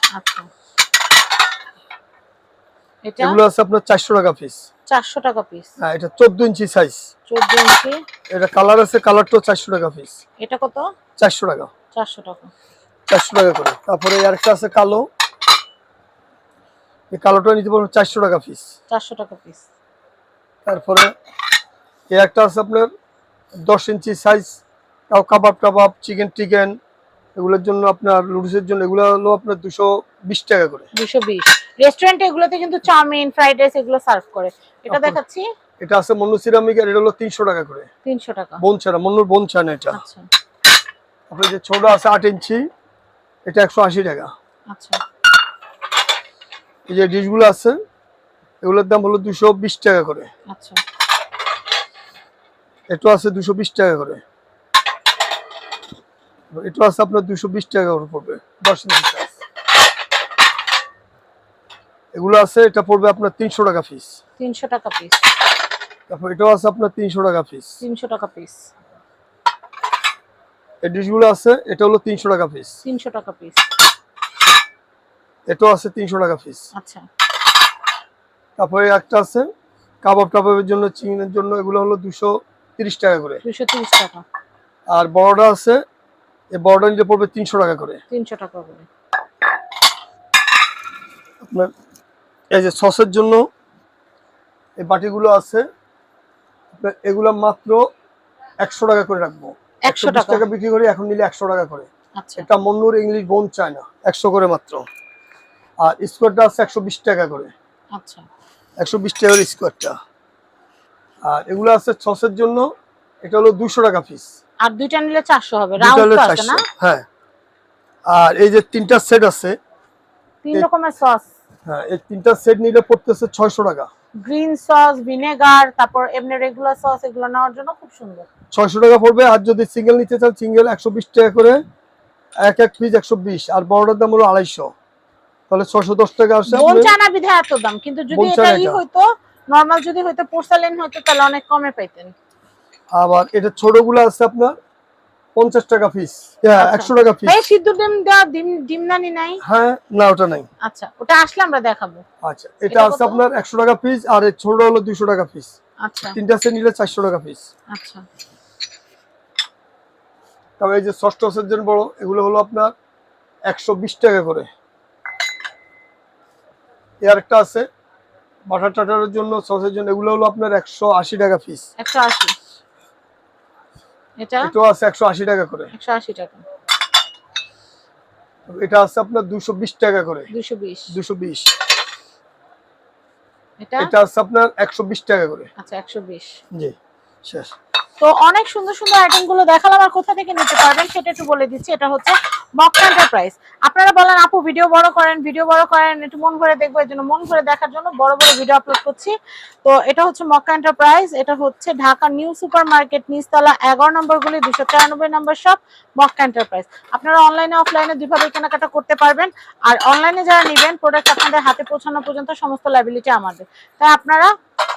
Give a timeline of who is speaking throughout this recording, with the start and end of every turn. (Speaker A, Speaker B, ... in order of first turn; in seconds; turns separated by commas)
Speaker A: 0.1-0.5, Speaker A: 3.0-3.4, Speaker B: 3.2-4.6, Speaker A: 4.9-5.7, Speaker B: 5.8-7.0, Speaker A: 7.3-8.0, Speaker B: 8.3-10.2, Speaker A: 10.4-10.9, Speaker B: 11.2-11.7, Speaker A: 11.9-12.5, Speaker B: 13.1-15.1, Speaker B: 17.1-18.7, Speaker A: 18.9-19.6, Speaker B: 20.6-21.1, Speaker B: 22.1-22.9, Speaker B: 23.6-24.6, Speaker B: 25.1-26.7, Speaker B: 27.4-30.9, Speaker A: 30.9-35.5, Speaker B: 34.9-35.2, Speaker B: 35.8-37.9, Speaker A: 38.0-38.6, Speaker B: 38.6-40.0, Speaker A: 39.9-40.3, Speaker B: 41.3-42.6, Speaker B: 43.5-44.3, Speaker A: 44.7-45.0, Speaker B: 46.9-47.8, Speaker B: 48.6-50.3, Speaker A: 50.5-50.8, Speaker B: 52.9-54.2, Speaker B: 56.5-59.4, Speaker B: 62.1-64.2, Speaker A: 64.4-65.2, Speaker B: 66.1-67.8, Speaker A: 67.8-68.7, Speaker B: 70.8-72.8, Speaker A: 72.8-73.6, Speaker B: 75.5-76.7, Speaker A: 76.7-77.0, Speaker B: 78.6-79.5, Speaker B: 80.0-83.4, Speaker A: 83.4-84.2, Speaker B: 84.9-85.8, Speaker B: 86.5-88.0, Speaker A: 88.1-88.8, Speaker B: 91.4-91.7, Speaker B: 92.5-93.5, Speaker B: 94.8-95.6, Speaker B: 96.8-97.8, Speaker B: 98.6-104.8, Speaker A: 99.8-100.4, Speaker A: 102.2-102.5, Speaker B: 105.8-107.5, Speaker A: 107.9-108.2, Speaker B: 108.8-109.9, Speaker B: 111.3-112.7, Speaker B: 113.2-114.3, Speaker A: 114.6-116.6, Speaker B: 115.8-117.0, Speaker B: 118.1-119.5, Speaker A: 120.4-121.3, Speaker B: 121.7-123.9, Speaker A: 124.2-128.3, Speaker B: 128.5-131.6, Speaker B: 132.4-134.7, Speaker B: 135.5-136.9, Speaker A: 136.5-142.1, Speaker B: 138.1-138.8, Speaker B: 142.9-144.5, Speaker B: 145.3-147.4, Speaker A: 146.6-149.4, Speaker B: 149.4-150.5, Speaker A: 150.6-152.0, Speaker B: 152.2-155.5, Speaker A: 152.7-153.2, Speaker A: 155.8-156.2, Speaker B: 156.1-157.4, Speaker A: 157.7-158.0, Speaker B: 160.6-162.7, Speaker B: 163.5-164.5, Speaker B: 167.0-167.7, Speaker B: 168.5-171.7, Speaker A: 171.8-172.3, Speaker A: 174.2-174.5, Speaker B: 174.4-175.7, Speaker A: 175.7-176.4, Speaker B: 178.5-180.3, Speaker A: 180.3-180.9, Speaker B: 180.9-181.5, Speaker A: 183.6-183.9, Speaker B: 183.8-185.5, Speaker A: 185.6-186.4, Speaker A: 188.0-199.1, Speaker A: 199.6-214.3